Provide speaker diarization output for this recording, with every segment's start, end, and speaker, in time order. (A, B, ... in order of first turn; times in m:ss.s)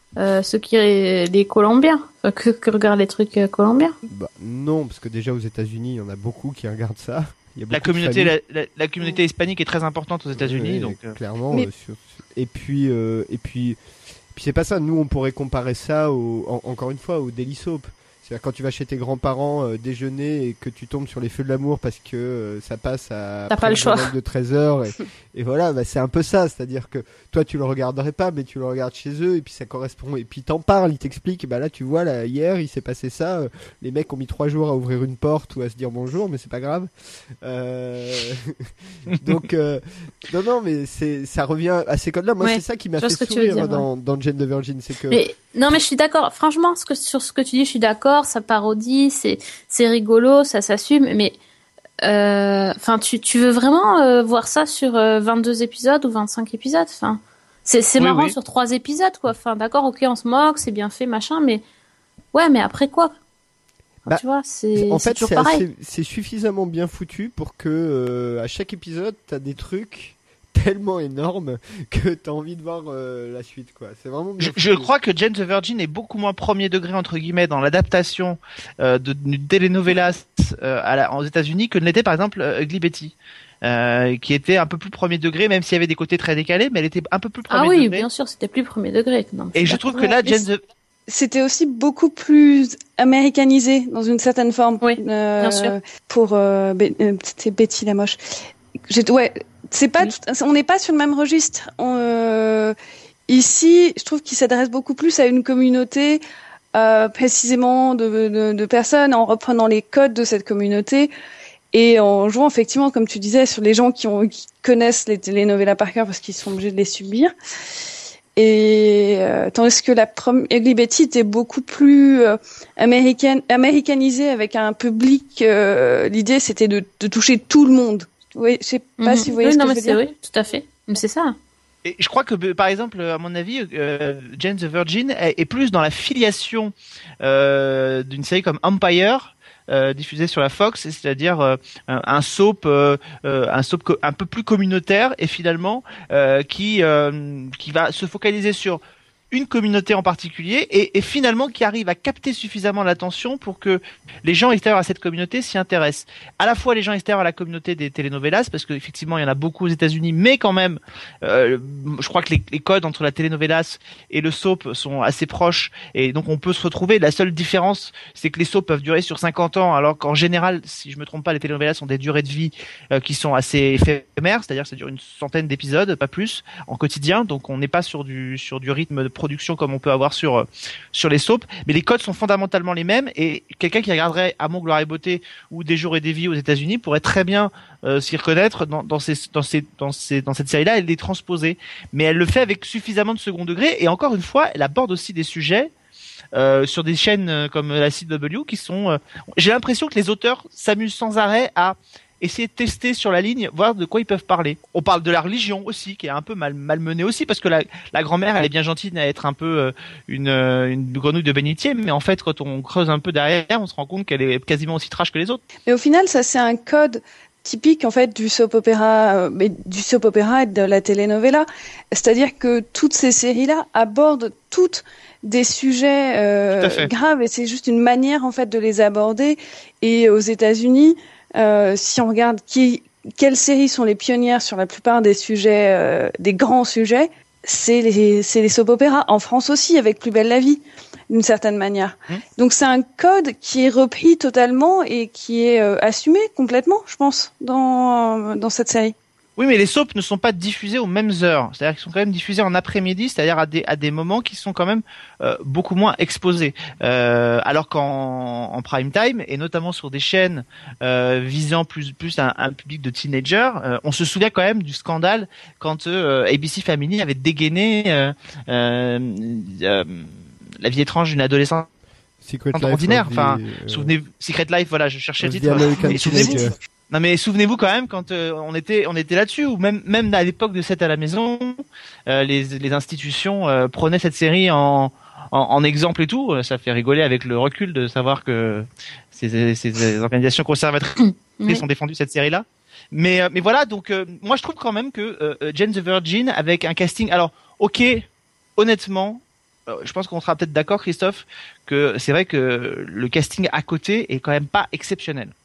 0:00.2-0:04.0 A
0:04.1-0:08.3 B
0:07.7-0:11.2 C
0:10.3-0:13.8 B
0:14.3-0:36.9 B
0:23.5-0:24.1 A
0:37.4-0:45.2 B
0:42.4-0:43.9 A
0:45.1-0:51.4 A
0:52.0-1:01.6 A
0:58.0-0:58.3 C
1:02.3-1:03.1 A
1:04.1-1:05.6 A
1:04.8-1:14.9 B
1:14.4-1:28.1 C
1:27.5-1:30.4 A
1:29.6-1:30.6 C
1:31.1-1:38.2 D
1:34.8-1:35.8 A
1:38.9-1:42.8 D
1:43.3-1:46.2 D
1:46.7-1:51.1 D
1:51.7-1:57.3 D
1:58.4-2:10.0 D
2:09.0-2:11.4 A
2:11.8-3:15.7 C
3:16.4-3:35.4 C
3:35.7-4:09.0 D
3:46.6-3:46.9 C
4:09.4-4:30.1 C
4:30.6-4:31.7 C
4:32.2-4:34.0 B
4:32.5-4:58.0 C
4:35.2-4:36.6 B
4:51.4-4:51.6 A
4:58.6-5:05.3 C